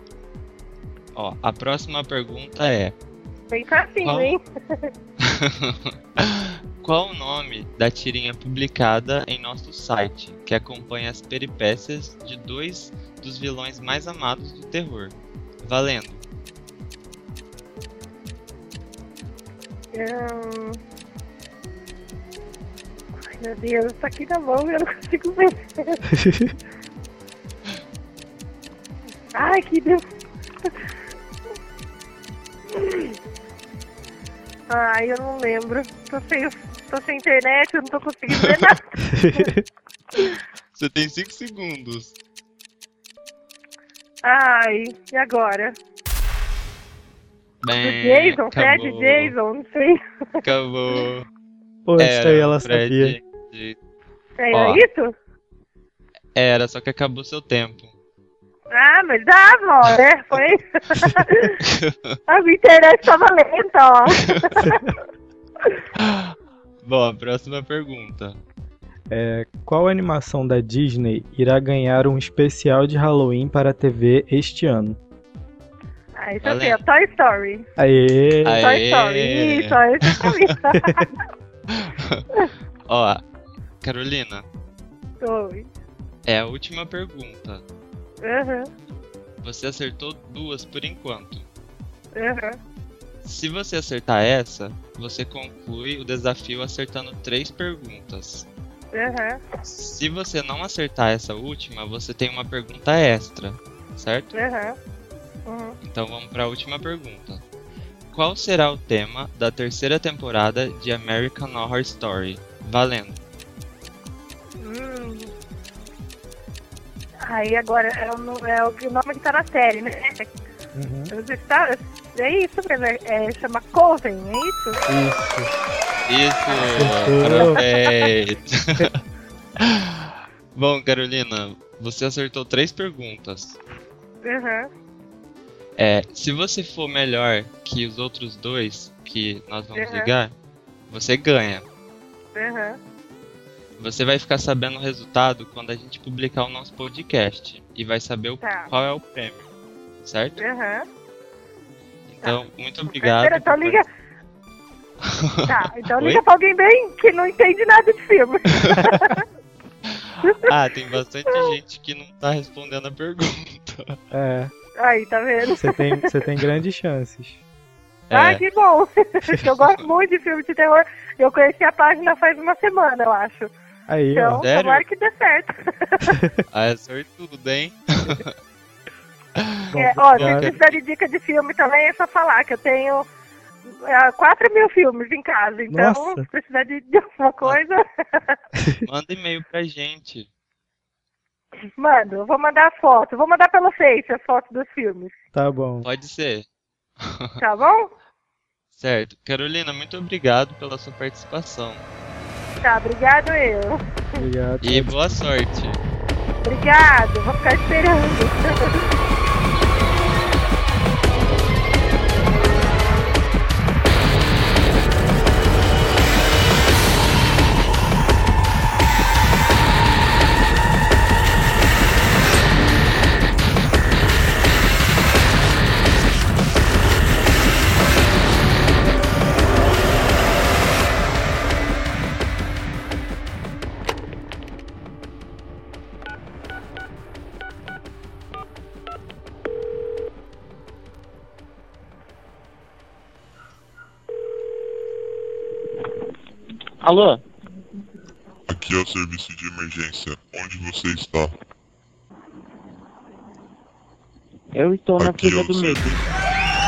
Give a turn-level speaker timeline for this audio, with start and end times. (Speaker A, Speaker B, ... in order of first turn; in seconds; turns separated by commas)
Speaker A: 1.1-2.9, Speaker B: 3.5-4.9, Speaker A: 4.0-4.3, Speaker A: 5.2-16.2, Speaker B: 19.9-20.8, Speaker B: 23.3-26.1, Speaker C: 26.2-26.5, Speaker B: 29.3-30.0, Speaker B: 32.7-33.1, Speaker B: 34.7-39.5, Speaker C: 39.1-39.6, Speaker A: 40.7-42.1, Speaker B: 44.2-45.8, Speaker A: 47.6-49.3, Speaker B: 47.8-50.4, Speaker A: 50.4-51.2, Speaker C: 51.9-53.2, Speaker A: 52.0-53.8, Speaker B: 54.4-55.1, Speaker A: 54.5-54.8, Speaker A: 56.3-57.9, Speaker B: 58.7-61.6, Speaker A: 61.6-61.9, Speaker B: 62.3-64.8, Speaker A: 66.0-68.4, Speaker C: 69.1-75.0, Speaker B: 76.2-77.6, Speaker A: 76.4-76.8, Speaker C: 77.8-78.6, Speaker A: 78.4-80.5, Speaker B: 78.6-81.1, Speaker A: 81.7-82.2, Speaker A: 82.9-83.2, Speaker A: 83.8-84.4, Speaker B: 85.2-85.7, Speaker A: 86.2-87.6, Speaker B: 88.2-88.7, Speaker A: 89.4-91.5, Speaker B: 92.1-92.6, Speaker A: 93.2-98.5, Speaker B: 98.9-99.4, Speaker A: 99.6-104.3, Speaker B: 104.3-104.7, Speaker B: 105.5-105.8, Speaker A: 105.8-107.4, Speaker A: 108.1-113.2, Speaker B: 114.6-115.3, Speaker B: 117.2-120.3, Speaker C: 120.7-121.1, Speaker B: 121.1-124.8, Speaker C: 124.9-125.5, Speaker A: 126.1-128.9, Speaker C: 126.7-127.6, Speaker B: 127.4-127.6, Speaker A: 130.5-133.6, Speaker B: 134.2-134.7, Speaker A: 135.8-140.3, Speaker B: 139.8-140.1, Speaker A: 140.9-141.6, Speaker B: 142.3-142.8, Speaker A: 143.8-149.4, Speaker B: 148.4-148.7, Speaker A: 150.0-150.4, Speaker B: 150.4-150.8, Speaker A: 152.1-153.8, Speaker B: 152.2-153.8, Speaker A: 155.3-156.2, Speaker B: 155.5-159.2, Speaker A: 159.9-164.0, Speaker B: 160.2-160.5, Speaker C: 164.1-164.5, Speaker B: 164.8-166.1, Speaker C: 165.5-167.4, Speaker A: 168.1-168.4, Speaker B: 168.1-173.5, Speaker C: 173.9-174.4, Speaker B: 174.1-176.2, Speaker A: 174.4-174.8, Speaker A: 176.5-178.3, Speaker C: 179.7-180.5, Speaker B: 179.7-183.1, Speaker A: 180.2-180.8, Speaker B: 183.8-188.4, Speaker C: 185.7-186.2, Speaker A: 188.8-190.3, Speaker B: 191.8-195.1, Speaker C: 195.3-195.9, Speaker A: 195.8-196.4, Speaker A: 197.0-197.4, Speaker B: 197.4-197.9, Speaker A: 198.8-201.8, Speaker B: 202.6-204.2, Speaker C: 204.2-204.9, Speaker A: 204.6-205.8, Speaker B: 206.4-208.8, Speaker D: 246.8-247.2, Speaker E: 248.5-251.3, Speaker D: 254.5-256.1, Speaker E: 255.0-256.1